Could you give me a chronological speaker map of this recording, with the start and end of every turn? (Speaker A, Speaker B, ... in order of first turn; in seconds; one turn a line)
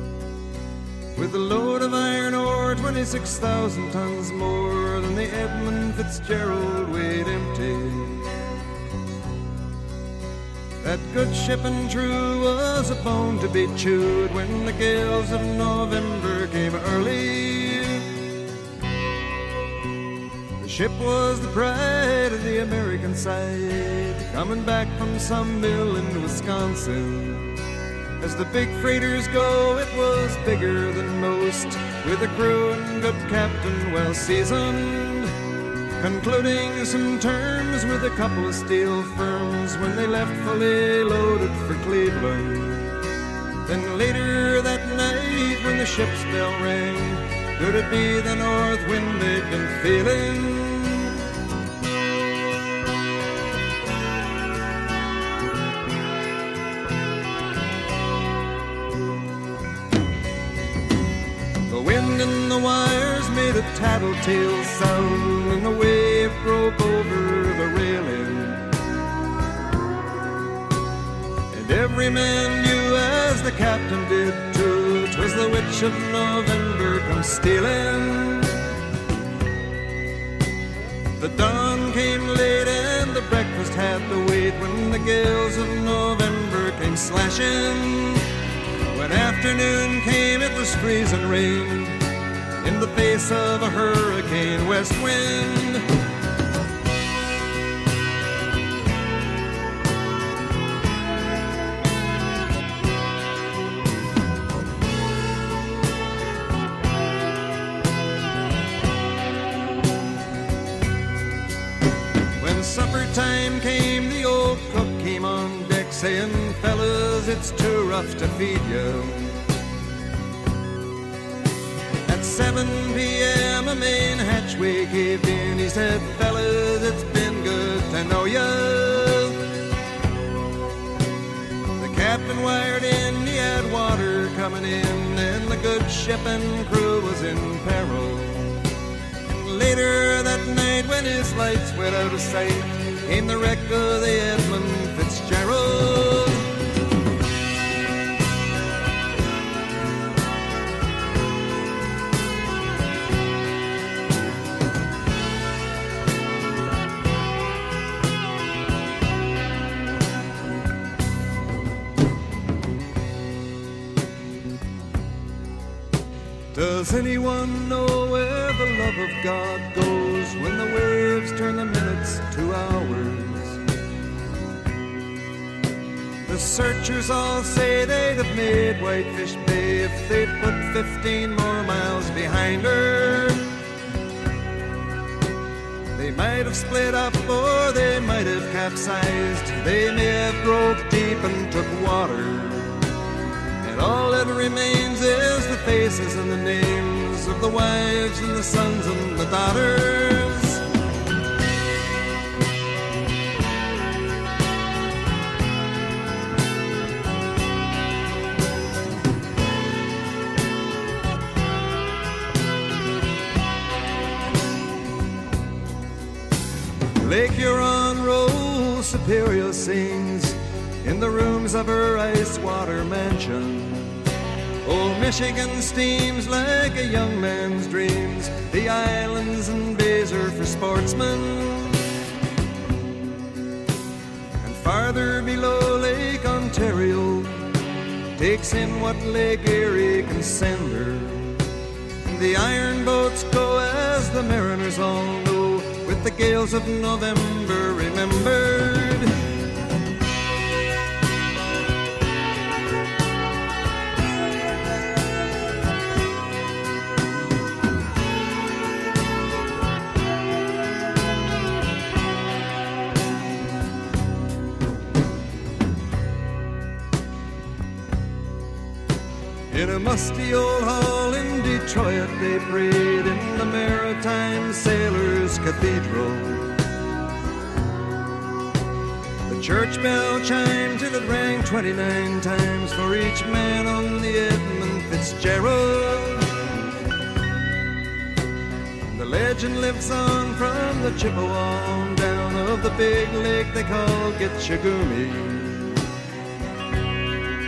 Speaker A: 1.2-8.3
Speaker A: 10.8-18.1
Speaker A: 20.6-27.6
Speaker A: 28.2-35.3
Speaker A: 36.0-43.0
Speaker A: 43.6-51.2
Speaker A: 61.7-68.7
Speaker A: 71.5-78.6
Speaker A: 81.2-88.3
Speaker A: 88.9-92.0
Speaker A: 92.6-95.8
Speaker A: 112.4-119.4
Speaker A: 122.1-129.4
Speaker A: 131.8-138.7
Speaker A: 139.3-146.5
Speaker A: 166.5-173.6
Speaker A: 176.3-183.5
Speaker A: 186.0-192.9
Speaker A: 193.6-200.6
Speaker A: 217.0-224.0
Speaker A: 224.6-231.8
Speaker A: 234.4-237.5
Speaker A: 238.2-241.5
Speaker A: 242.1-249.1
Speaker A: 269.5-276.6
Speaker A: 279.3-286.3
Speaker A: 288.9-295.8